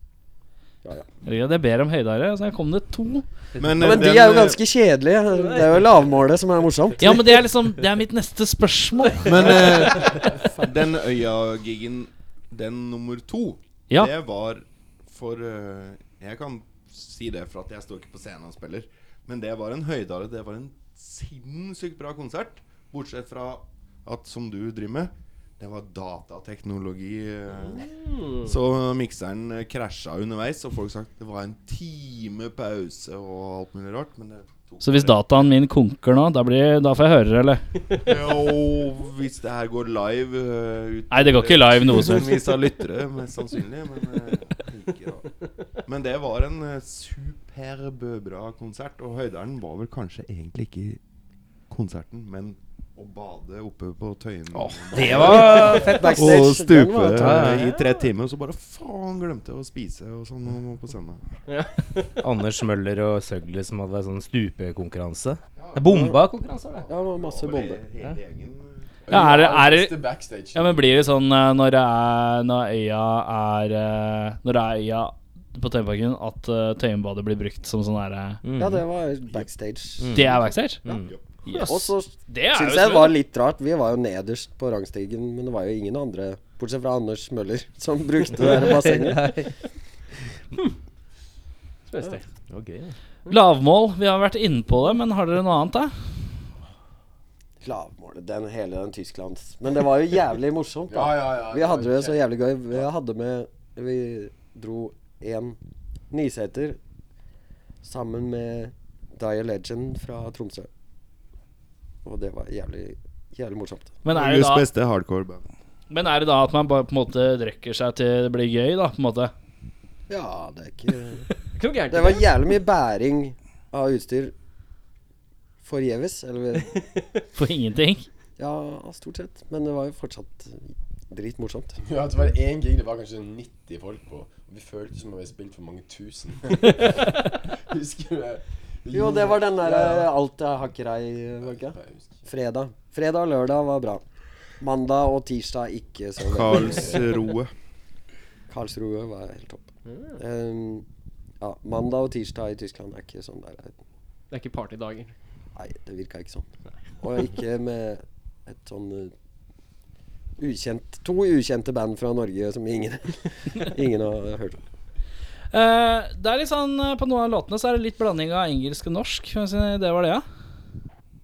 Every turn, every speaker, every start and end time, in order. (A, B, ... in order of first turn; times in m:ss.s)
0:01.2-0:03.2 A
0:03.6-0:03.8 B
0:03.6-0:04.6 C
0:03.8-0:07.2 D
0:05.4-0:05.6 E
0:07.0-0:09.6 A
0:09.2-0:27.9 C
0:28.0-0:28.5 E
0:28.4-0:35.2 C
0:34.8-0:37.6 A
0:38.0-0:45.2 C
0:41.1-0:42.4 A
0:45.8-0:51.0 C
0:51.7-1:01.2 C
0:54.5-0:56.4 B
0:55.1-0:57.6 D
0:57.1-0:57.6 B
0:57.6-0:58.0 E
1:01.5-1:02.1 E
1:02.2-1:06.8 B
1:05.6-1:05.8 C
1:05.9-1:06.2 D
1:06.9-1:07.8 D
1:07.2-1:08.9 C
1:09.0-1:10.9 F
1:09.1-1:10.0 A
1:10.5-1:18.4 A
1:18.4-1:18.8 B
1:18.6-1:20.4 D
1:20.0-1:21.1 B
1:20.1-1:20.9 A
1:20.9-1:21.2 C
1:21.4-1:23.2 A
1:21.6-1:29.3 D
1:28.4-1:29.5 B
1:31.9-1:32.2 E
1:32.5-1:32.9 B
1:33.3-1:35.9 A
1:37.6-1:45.6 D
1:40.9-1:42.2 F
1:46.1-1:46.8 D
1:47.8-1:50.7 D
1:52.0-1:54.0 D
1:54.0-1:54.6 A
1:54.1-1:55.4 C
1:55.9-1:59.3 A
2:00.1-2:01.3 D
2:01.5-2:02.3 E
2:01.9-2:04.3 D
2:05.6-2:06.8 D
2:07.3-2:08.1 A
2:08.4-2:11.8 D
2:11.8-2:20.1 F
2:18.9-2:24.0 D
2:21.4-2:22.2 F
2:24.6-2:27.0 D
2:26.3-2:27.5 C
2:28.5-2:29.6 D
2:29.9-2:30.2 E
2:30.2-2:30.8 D
2:31.4-2:33.7 D
2:34.3-2:35.1 E
2:35.6-2:36.4 D
2:37.0-2:39.1 D
2:40.4-2:44.6 D
2:45.5-2:50.2 A